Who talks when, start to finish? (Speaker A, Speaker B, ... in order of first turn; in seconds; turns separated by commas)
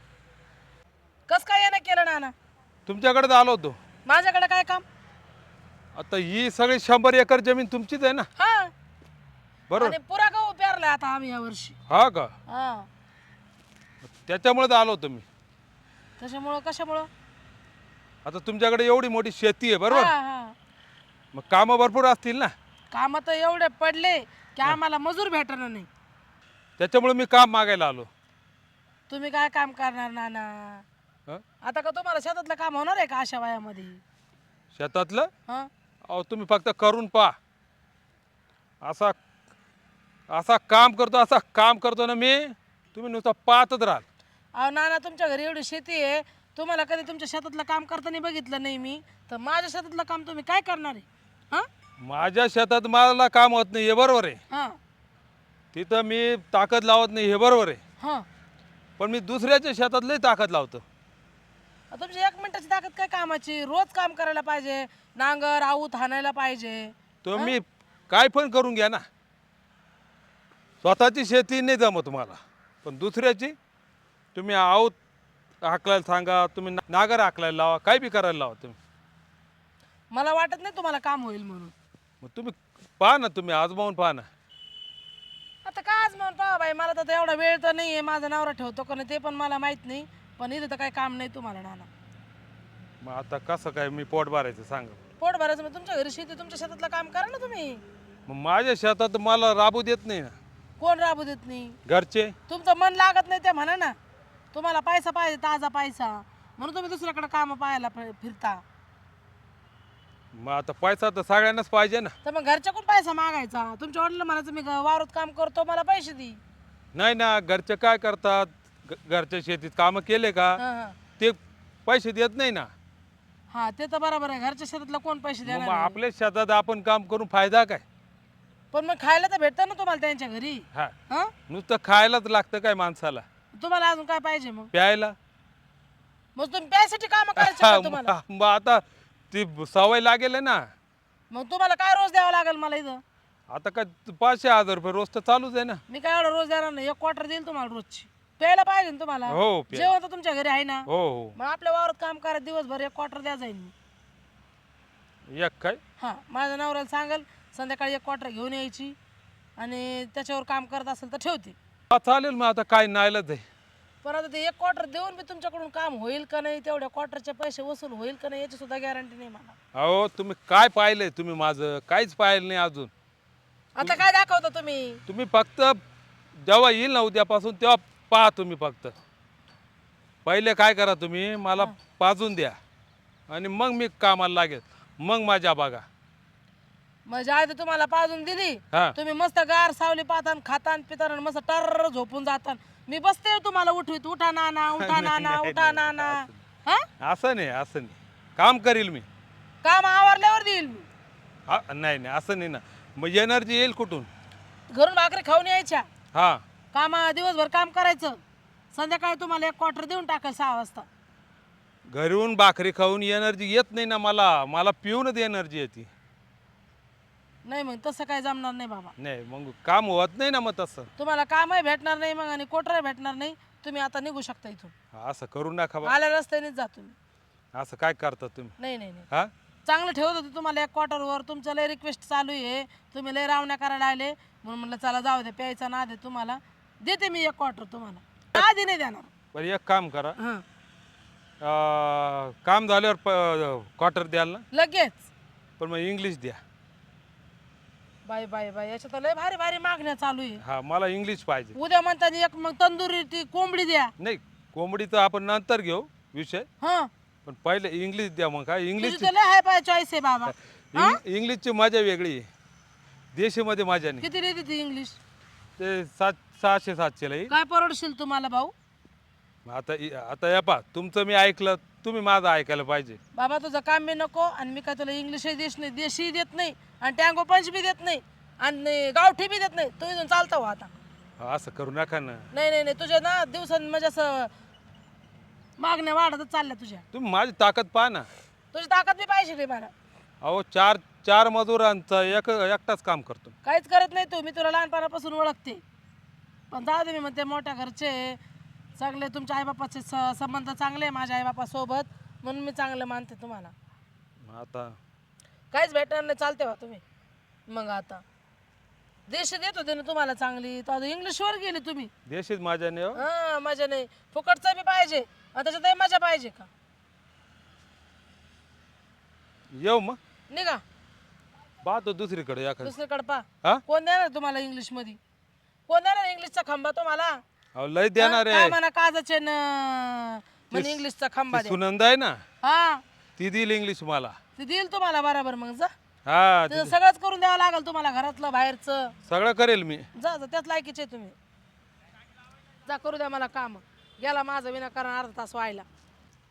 Speaker A: 1.3-2.3, Speaker B: 2.9-3.8, Speaker A: 4.1-4.8, Speaker B: 6.0-8.3, Speaker A: 8.4-8.7, Speaker B: 9.7-9.9, Speaker A: 9.8-11.8, Speaker B: 11.9-12.3, Speaker A: 12.5-12.9, Speaker B: 14.1-15.2, Speaker A: 16.2-17.1, Speaker B: 18.2-20.1, Speaker A: 19.9-20.5, Speaker B: 21.3-22.5, Speaker A: 22.9-25.9, Speaker B: 26.8-28.1, Speaker A: 29.1-30.9, Speaker A: 31.6-34.0, Speaker B: 34.7-35.3, Speaker B: 36.1-37.4, Speaker B: 38.8-39.1, Speaker B: 40.3-44.0, Speaker A: 44.5-51.7, Speaker B: 52.0-54.4, Speaker A: 54.5-54.8, Speaker B: 55.7-57.8, Speaker A: 58.0-58.2, Speaker B: 59.0-60.8, Speaker A: 61.9-67.6, Speaker B: 67.2-69.0, Speaker B: 70.8-73.5, Speaker B: 74.3-75.0, Speaker B: 75.6-78.8, Speaker A: 80.1-81.7, Speaker B: 82.2-84.3, Speaker A: 85.7-91.9, Speaker B: 93.0-95.0, Speaker A: 95.2-97.8, Speaker B: 98.3-100.3, Speaker A: 100.8-101.8, Speaker B: 101.9-102.3, Speaker A: 102.5-104.0, Speaker A: 104.5-108.6, Speaker B: 110.3-112.1, Speaker A: 112.2-116.4, Speaker B: 117.0-120.6, Speaker A: 120.6-121.0, Speaker B: 121.2-122.7, Speaker A: 123.5-126.0, Speaker B: 125.5-127.8, Speaker A: 128.7-131.3, Speaker B: 131.5-133.2, Speaker A: 133.6-134.7, Speaker B: 134.7-135.2, Speaker A: 136.4-138.1, Speaker B: 137.4-140.6, Speaker A: 141.3-143.0, Speaker B: 143.5-145.8, Speaker A: 145.9-153.7, Speaker B: 149.3-149.9, Speaker B: 150.9-151.4, Speaker B: 155.3-155.8, Speaker A: 156.0-159.0, Speaker A: 159.6-161.6, Speaker B: 161.9-163.4, Speaker A: 164.0-169.6, Speaker B: 169.8-172.9, Speaker A: 173.8-175.0, Speaker B: 175.1-175.8, Speaker B: 176.4-178.9, Speaker B: 180.2-182.6, Speaker B: 183.3-185.8, Speaker A: 187.1-196.9, Speaker B: 194.8-196.4, Speaker B: 197.0-199.1, Speaker A: 199.6-200.9, Speaker B: 201.5-204.1, Speaker A: 204.7-205.9, Speaker B: 206.1-206.4, Speaker A: 206.7-208.2, Speaker A: 208.7-210.9, Speaker B: 211.9-215.9, Speaker A: 217.4-218.9, Speaker B: 219.0-220.9, Speaker A: 221.0-224.7, Speaker B: 224.9-225.9, Speaker A: 225.8-226.9, Speaker B: 227.5-228.6, Speaker A: 228.6-229.1, Speaker A: 229.7-239.1, Speaker B: 239.3-240.2, Speaker A: 240.2-240.4, Speaker B: 241.4-244.4, Speaker A: 244.5-245.1, Speaker B: 245.6-246.4, Speaker A: 248.1-250.4, Speaker B: 250.4-251.6, Speaker A: 251.6-253.9, Speaker B: 254.0-256.5, Speaker A: 256.6-256.9, Speaker B: 257.2-259.1, Speaker A: 258.8-261.0, Speaker B: 260.7-262.3, Speaker B: 263.1-264.1, Speaker A: 264.0-265.0, Speaker B: 265.6-267.3, Speaker A: 267.3-268.5, Speaker B: 269.5-273.0, Speaker A: 273.1-280.7, Speaker B: 281.2-282.3, Speaker A: 282.3-284.3, Speaker A: 285.6-286.8, Speaker B: 286.9-288.1, Speaker A: 288.5-289.7, Speaker B: 290.2-293.4, Speaker A: 293.4-295.6, Speaker A: 296.5-298.2, Speaker A: 298.8-303.5, Speaker B: 304.3-304.8, Speaker A: 305.5-306.8, Speaker A: 307.5-308.0, Speaker A: 309.1-311.9, Speaker B: 312.1-313.0, Speaker A: 313.0-316.5, Speaker B: 319.5-320.0, Speaker A: 320.3-320.6, Speaker B: 321.6-322.7, Speaker A: 322.6-325.0, Speaker A: 325.7-327.2, Speaker B: 327.6-328.6, Speaker A: 328.0-331.6, Speaker B: 330.5-330.8, Speaker B: 331.3-332.2, Speaker A: 332.4-332.8, Speaker B: 333.2-334.1, Speaker A: 334.4-335.7, Speaker B: 336.1-336.8, Speaker A: 336.5-338.9, Speaker B: 339.1-339.9, Speaker A: 339.9-341.1, Speaker A: 342.6-345.7